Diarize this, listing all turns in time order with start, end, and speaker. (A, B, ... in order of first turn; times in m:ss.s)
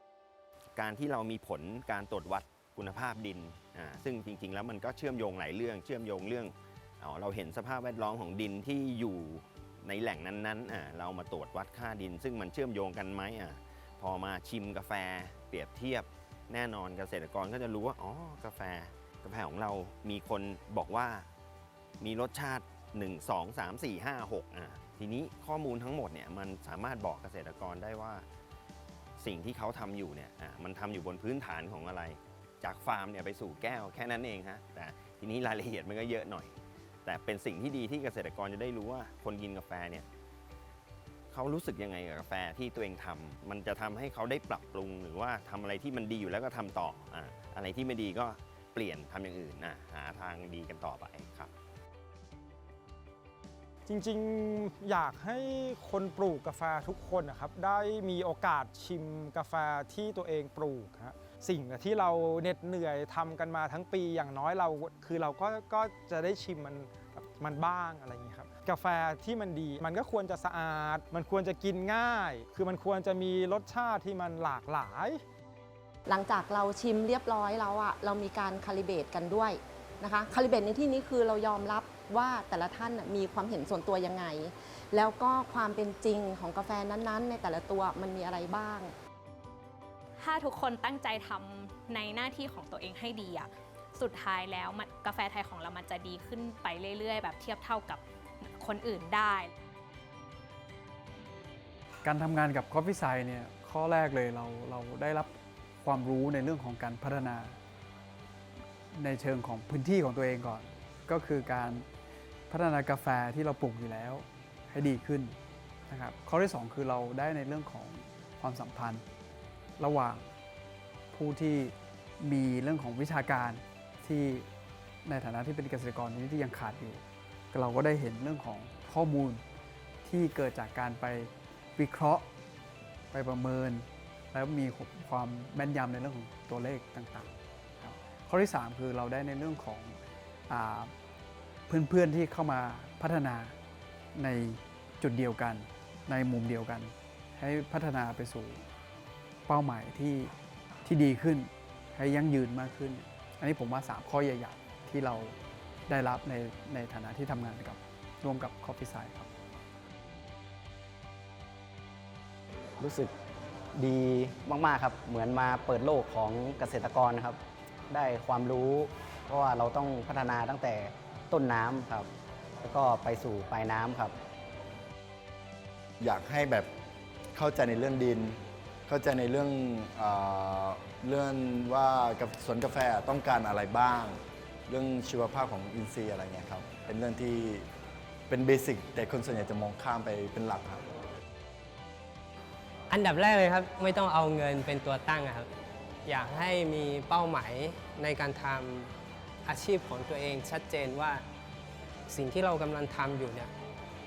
0:00.7-0:21.3 A
0:22.0-0:28.2 A
0:29.2-0:40.0 A
0:41.3-0:51.5 A
0:53.9-1:15.2 B
1:16.1-1:28.9 C
1:30.2-1:39.5 D
1:42.0-1:47.6 E
1:48.9-1:51.9 E
1:52.5-1:59.0 E
1:59.8-2:00.3 E
2:01.1-2:04.5 E
2:05.0-2:09.4 E
2:10.0-2:12.3 E
2:13.1-2:20.9 E
2:21.7-2:23.6 E
2:24.1-2:28.6 E
2:29.4-2:30.3 E
2:30.8-2:39.3 E
2:42.8-2:43.1 F
2:43.8-2:52.1 F
2:52.6-2:54.1 F
2:56.0-2:56.7 G
2:57.3-3:07.6 G
3:08.3-3:10.8 G
3:12.9-3:15.4 H
3:16.1-3:18.9 H
3:19.5-3:21.2 H
3:22.1-3:23.5 H